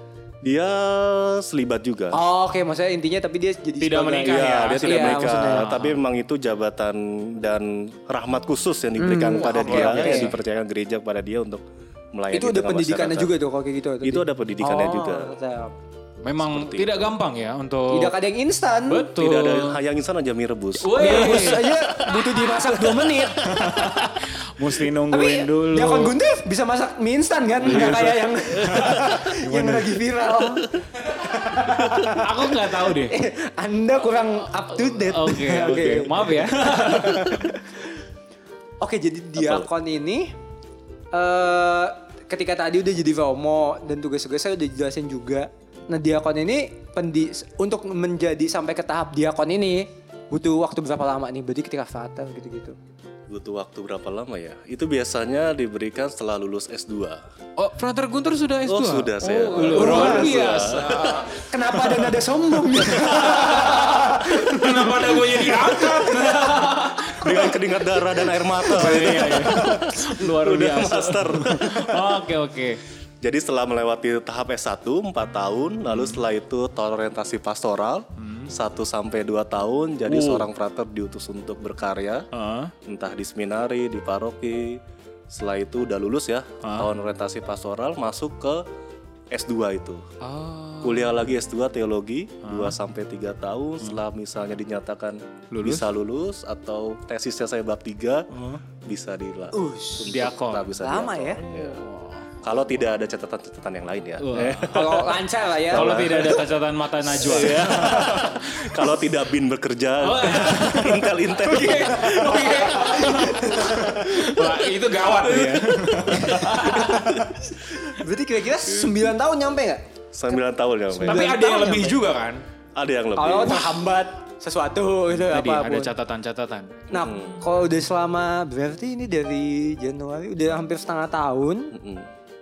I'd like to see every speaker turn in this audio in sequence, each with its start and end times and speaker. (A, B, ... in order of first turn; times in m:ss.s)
0:00.4-0:02.2 A
0:02.1-0:05.7 B
0:03.8-0:06.0 C
0:04.2-0:13.3 A
0:09.0-0:10.4 B
0:09.3-0:10.4 C
0:12.3-0:15.7 B
0:14.0-0:15.3 A
0:16.2-0:18.1 C
0:16.4-0:17.1 A
0:17.9-0:19.1 B
0:18.9-0:19.8 C
0:19.1-0:21.3 A
0:20.8-0:22.0 C
0:21.0-0:23.9 B
0:23.0-0:23.2 A
0:23.4-0:26.2 C
0:25.1-0:37.8 B
0:27.6-0:28.2 A
0:27.6-0:30.0 C
0:28.7-0:29.2 A
0:32.1-0:33.2 C
0:34.9-0:37.4 C
0:38.8-0:40.3 B
0:39.4-0:39.7 A
0:41.1-0:52.7 B
0:53.3-0:57.2 A
0:57.6-1:01.3 C
0:58.6-1:01.3 A
0:59.6-1:00.7 B
1:01.3-1:06.3 B
1:02.9-1:03.6 A
1:03.2-1:07.6 C
1:07.0-1:12.2 A
1:08.6-1:12.8 C
1:13.2-1:22.3 A
1:15.9-1:16.2 C
1:18.2-1:18.5 C
1:20.1-1:20.5 C
1:22.3-1:22.7 C
1:22.8-1:28.6 A
1:26.6-1:26.9 C
1:29.3-1:30.0 A
1:30.2-1:31.3 C
1:30.8-1:38.3 A
1:32.4-1:32.8 C
1:35.5-1:35.8 C
1:38.3-1:38.6 C
1:38.8-1:41.8 A
1:39.5-1:40.1 B
1:40.0-1:40.7 C
1:40.7-1:41.4 B
1:41.8-1:42.2 C
1:42.4-1:46.5 A
1:44.2-1:45.0 C
1:44.6-1:46.3 B
1:45.7-1:48.9 C
1:47.0-1:57.3 A
1:50.0-1:57.9 C
1:52.8-1:53.9 B
1:56.6-1:56.9 B
1:57.9-1:59.8 B
2:00.1-2:01.2 A
2:01.0-2:02.0 B
2:01.0-2:02.4 C
2:02.8-2:03.8 A
2:03.2-2:05.9 B
2:05.1-2:06.7 C
2:06.9-2:11.7 B
2:06.9-2:07.4 A
2:11.7-2:12.1 A